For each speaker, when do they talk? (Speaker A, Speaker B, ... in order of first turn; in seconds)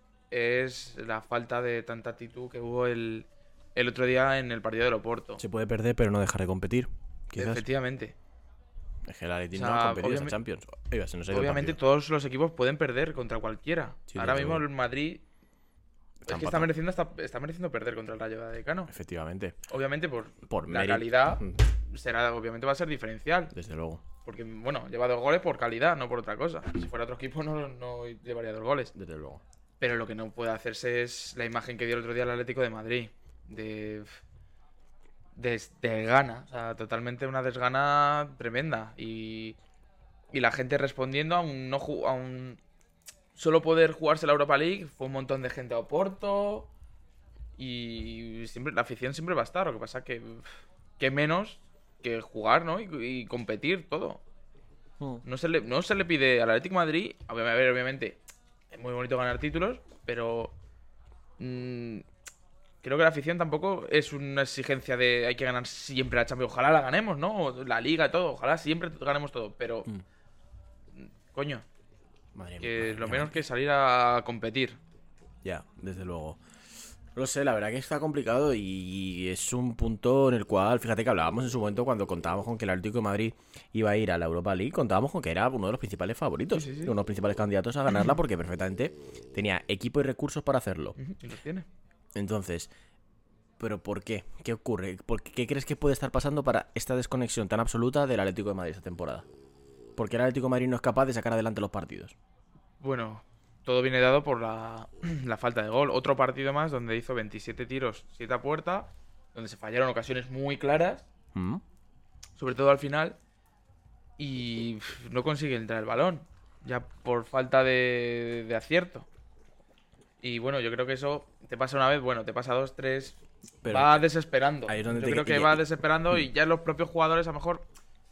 Speaker A: 0.3-5.4, 7.3-8.1, 9.5-10.4, 11.3-15.2, 16.3-18.9, 19.7-23.5, 24.2-28.9, 29.8-34.2, 35.4-39.5, 40.3-42.6, 43.3-46.7, 47.6-50.5, 51.0-54.2, 55.2-58.2, 58.7-60.5, 61.4-62.0, 62.8-69.9, 71.0-71.6, 72.6-74.8, 86.5-86.9, 91.0-91.7, 102.8-111.1, 112.4-113.2, 114.2-119.1, 120.2-127.6
Speaker B: 5.4-7.6, 9.1-11.8, 14.1-14.6, 16.2-16.7, 18.9-19.6, 20.5-21.6, 23.5-24.0, 28.9-29.4, 72.3-73.4, 75.4-76.4, 77.1-91.0, 92.1-92.7, 93.6-99.2, 100.0-102.1, 111.3-111.6, 123.6-124.0, 124.7-126.2